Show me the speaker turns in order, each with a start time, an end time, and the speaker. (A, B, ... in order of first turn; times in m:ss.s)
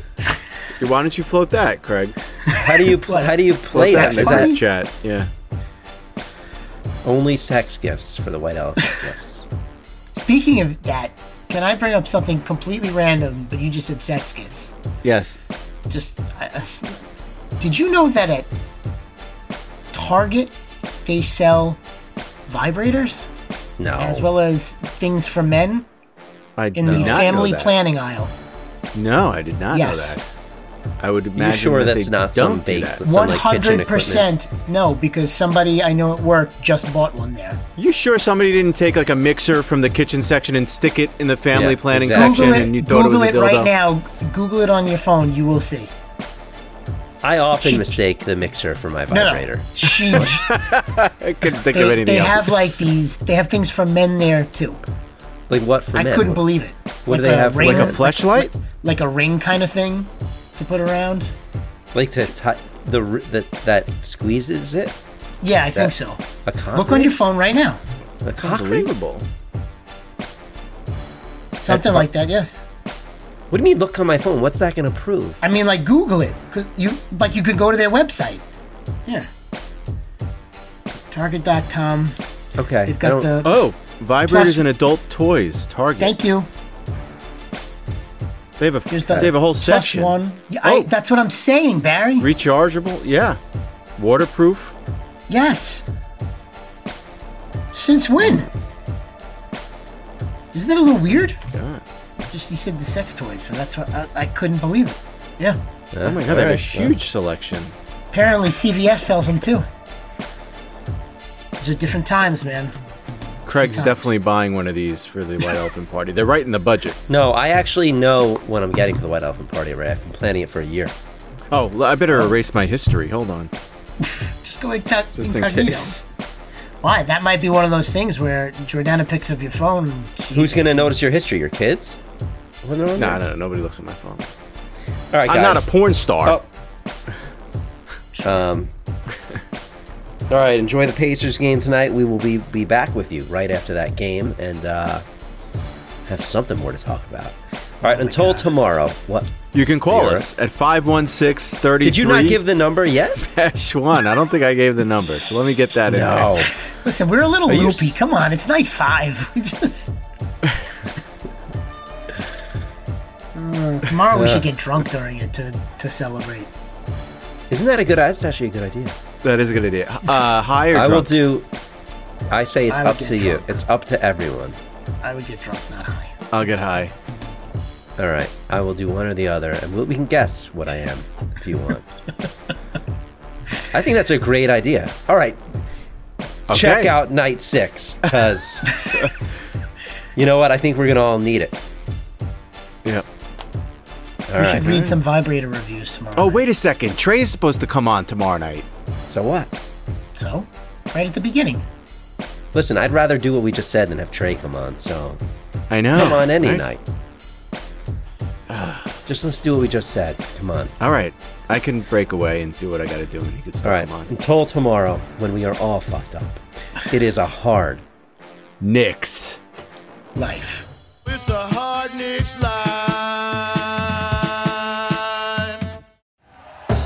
0:00.8-0:02.1 A
0:02.5-0:04.5 B
0:03.1-0:04.6 C
0:03.7-0:05.3 A
0:07.0-0:09.4 B
0:10.1-0:14.7 C
0:15.0-0:15.4 A
0:15.9-0:17.0 C
0:17.6-0:18.5 C
0:19.9-0:21.8 C
0:22.5-0:23.3 C
0:23.8-0:24.3 B
0:24.0-0:25.9 C
0:26.6-0:27.7 A
0:26.8-0:28.3 C
0:26.9-0:27.3 B
0:28.9-0:30.2 A
0:29.7-0:30.2 C
0:31.0-0:33.0 A
0:31.4-0:34.3 B
0:33.0-0:37.6 C
0:37.8-0:43.7 A
0:41.5-0:42.7 B
0:42.1-0:45.9 C
0:47.2-0:50.2 B
0:47.6-0:48.0 C
0:49.1-0:50.5 C
0:50.2-0:52.7 A
0:51.7-0:54.8 C
0:55.5-0:56.4 B
0:55.9-1:01.3 C
0:57.1-0:58.0 B
0:57.6-0:58.5 A
1:01.9-1:04.9 B
1:05.4-1:06.2 C
1:06.4-1:07.1 B
1:06.7-1:07.8 C
1:08.2-1:08.9 B
1:08.4-1:09.2 A
1:11.6-1:12.6 C
1:11.7-1:12.1 B
1:13.5-1:15.4 B
1:15.4-1:18.4 C
1:21.1-1:22.2 C
1:22.6-1:23.4 B
1:22.8-1:23.7 C
1:23.4-1:26.1 A
1:24.2-1:24.6 C
1:26.0-1:26.5 C
1:28.6-1:30.9 A
1:28.9-1:32.3 C
1:32.2-1:33.4 A
1:34.0-1:34.7 A
1:35.3-1:35.8 C
1:37.7-1:38.5 C
1:40.5-1:41.4 C
1:41.4-1:41.8 A
1:42.3-1:45.6 C
1:45.9-1:46.9 B
1:46.0-1:47.8 A
1:48.1-1:49.6 C
1:51.6-1:52.7 C
1:53.4-1:57.0 A
1:53.6-1:54.1 C
1:57.1-2:00.9 B
2:01.5-2:03.5 A
2:04.0-2:06.0 C
2:05.2-2:05.9 A
2:06.8-2:10.9 C
2:10.3-2:12.0 B
2:12.6-2:13.2 B
2:13.0-2:14.3 A
2:15.1-2:15.7 B
2:15.2-2:16.4 A
2:18.1-2:18.4 C
2:18.2-2:18.7 B
2:20.3-2:25.0 B
2:26.1-2:29.3 B
2:27.8-2:28.5 C
2:29.5-2:32.4 A
2:29.9-2:30.3 B
2:31.8-2:33.2 B
2:33.2-2:36.5 A
2:35.9-2:36.5 B
2:36.6-2:39.9 C
2:37.5-2:37.9 B
2:43.3-2:46.5 C
2:44.1-2:44.5 B
2:47.5-2:48.9 B
2:49.2-2:51.1 A
2:50.7-2:51.5 B
2:52.3-2:54.6 B
2:52.7-2:53.6 C
2:55.0-2:56.1 C
2:56.3-2:56.9 A
2:58.0-3:01.9 B
3:03.7-3:05.4 B
3:06.5-3:07.0 A
3:06.5-3:08.7 B
3:10.2-3:11.6 B
3:14.3-3:14.8 B
3:14.4-3:16.4 C
3:14.6-3:14.9 A
3:16.2-3:18.7 A
3:19.1-3:19.5 B
3:20.2-3:21.6 C
3:22.5-3:25.2 B
3:25.7-3:26.7 A
3:25.9-3:26.8 B
3:28.5-3:29.0 A
3:29.1-3:30.8 B
3:30.8-3:34.1 A
3:33.6-3:37.8 B
3:38.6-3:39.4 A
3:40.2-3:40.7 C
3:41.0-3:45.7 D